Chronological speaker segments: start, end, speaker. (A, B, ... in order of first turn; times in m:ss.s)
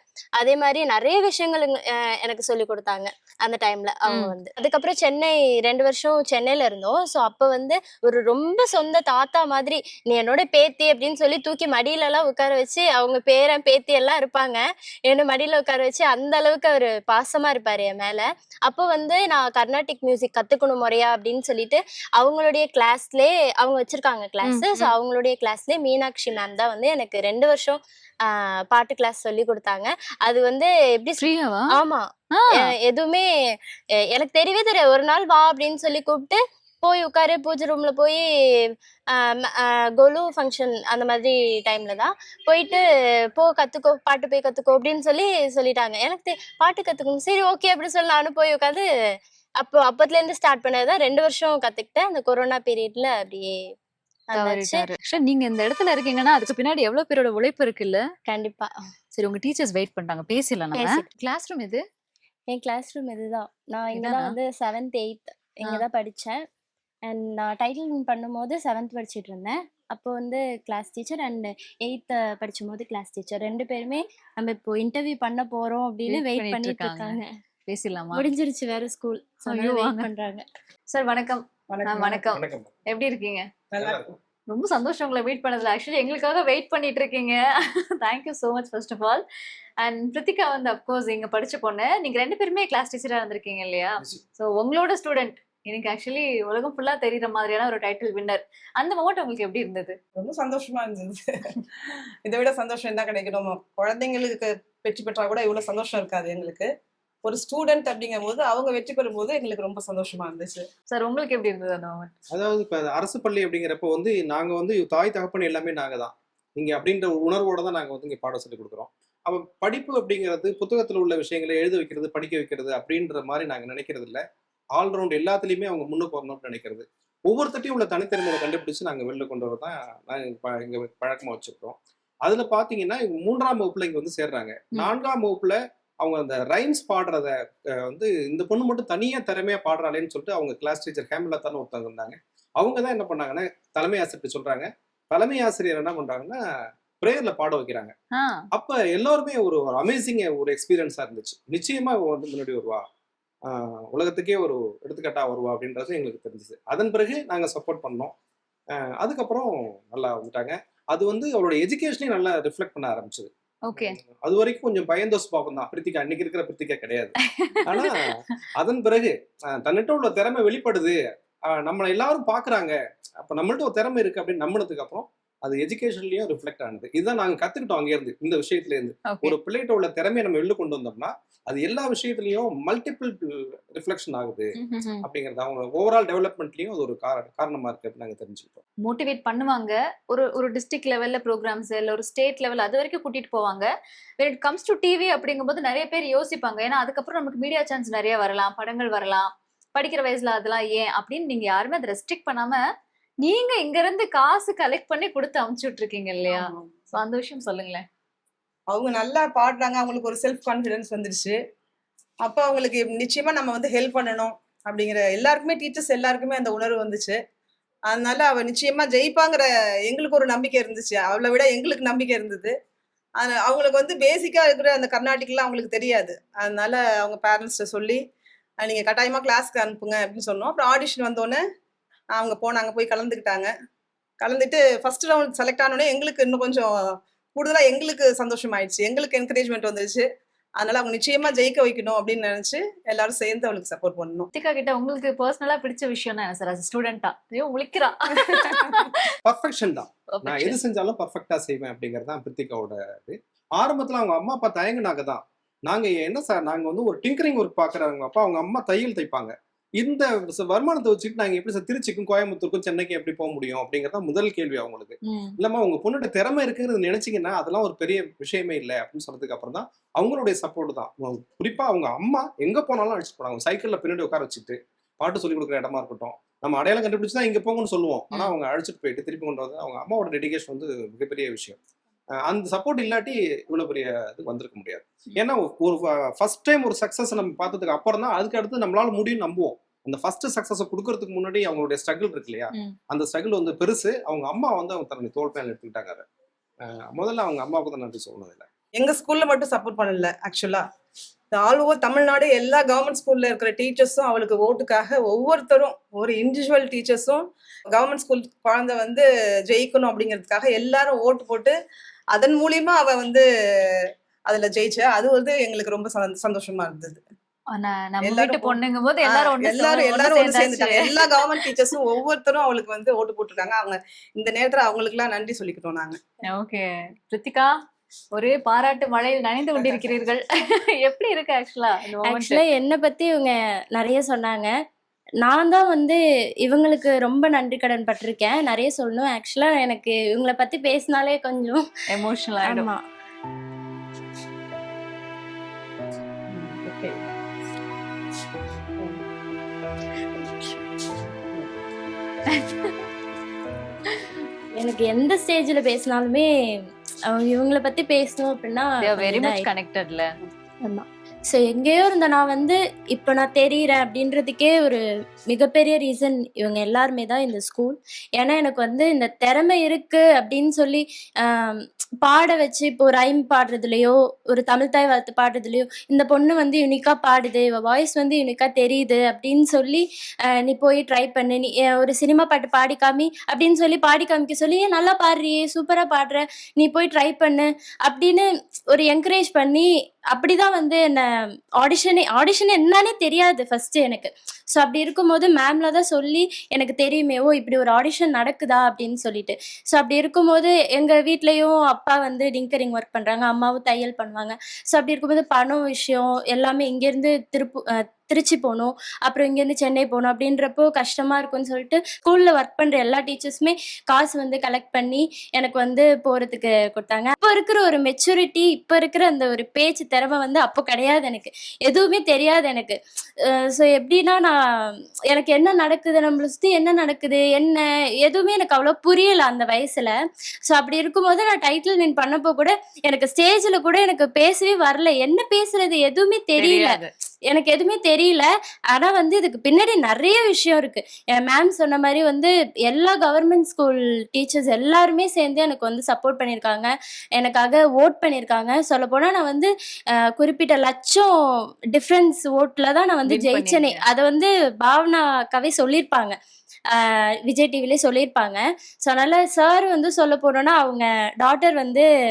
0:00.4-0:31.2 A
0:04.1-0:04.3 B
0:24.4-0:24.9 B
0:31.2-0:31.7 B
0:31.7-0:32.1 A
0:32.3-0:32.7 B
0:32.6-0:33.3 A
0:34.1-0:38.2 A
0:39.1-0:42.8 A
0:43.4-0:48.8 A
0:49.6-0:53.6 A
0:54.3-0:54.9 A
0:54.4-0:58.0 B
0:58.3-0:58.7 A
0:59.2-1:01.8 B
1:00.8-1:01.1 A
1:02.5-1:06.4 A
1:03.9-1:04.3 B
1:07.1-1:17.3 A
1:16.1-1:18.3 B
1:18.2-1:20.4 A
1:19.5-1:20.1 B
1:20.9-1:23.4 B
1:21.7-1:22.3 C
1:22.3-1:22.7 D
1:23.7-1:24.1 C
1:23.8-1:24.1 D
1:24.5-1:27.4 B
1:28.0-1:29.2 B
1:29.8-1:40.0 B
1:40.2-1:41.6 C
1:42.2-1:46.7 C
1:47.2-1:50.7 C
1:50.9-1:52.1 B
1:52.3-2:04.2 D
2:04.8-2:26.4 D
2:27.0-2:27.9 D
2:28.2-2:28.4 B
2:28.5-2:32.8 D
2:33.5-2:38.1 D
2:38.8-2:47.2 D
2:43.7-2:44.0 B
2:47.3-2:47.9 B
2:47.7-3:04.5 D
2:59.1-2:59.4 B
3:04.6-3:05.0 B
3:05.0-3:08.6 D
3:08.8-3:22.6 B
3:23.2-3:27.8 B
3:26.3-3:26.7 C
3:28.7-3:31.4 C
3:32.2-3:37.2 C
3:37.9-3:42.6 C
3:43.2-3:48.0 C
3:48.6-3:51.4 C
3:52.1-3:53.5 C
3:54.2-3:56.7 C
3:57.4-4:00.1 C
4:00.6-4:04.3 C
4:04.4-4:09.1 B
4:09.2-4:41.6 D
4:10.2-4:10.6 B
4:25.1-4:25.4 B
4:42.2-4:56.0 D
4:56.6-4:58.4 D
4:58.8-5:00.6 C
5:01.3-5:11.6 C
5:12.1-5:17.0 C
5:17.5-5:21.5 B
5:18.0-5:26.0 C
5:26.3-5:27.5 B
5:28.1-5:32.4 B
5:32.0-5:34.5 A
5:35.2-5:41.6 A
5:41.9-5:42.7 B
5:42.4-5:42.8 A
5:46.3-5:47.0 C
5:52.3-5:52.8 B
5:54.6-5:56.3 A
5:57.1-5:59.5 A
5:58.8-6:00.1 B
6:00.6-7:02.8 A
7:03.3-7:09.9 A
7:10.5-7:29.5 A
7:16.4-7:16.9 B
7:30.1-7:31.1 A
7:31.7-7:36.2 A
7:33.1-7:33.8 B
7:36.7-7:41.9 A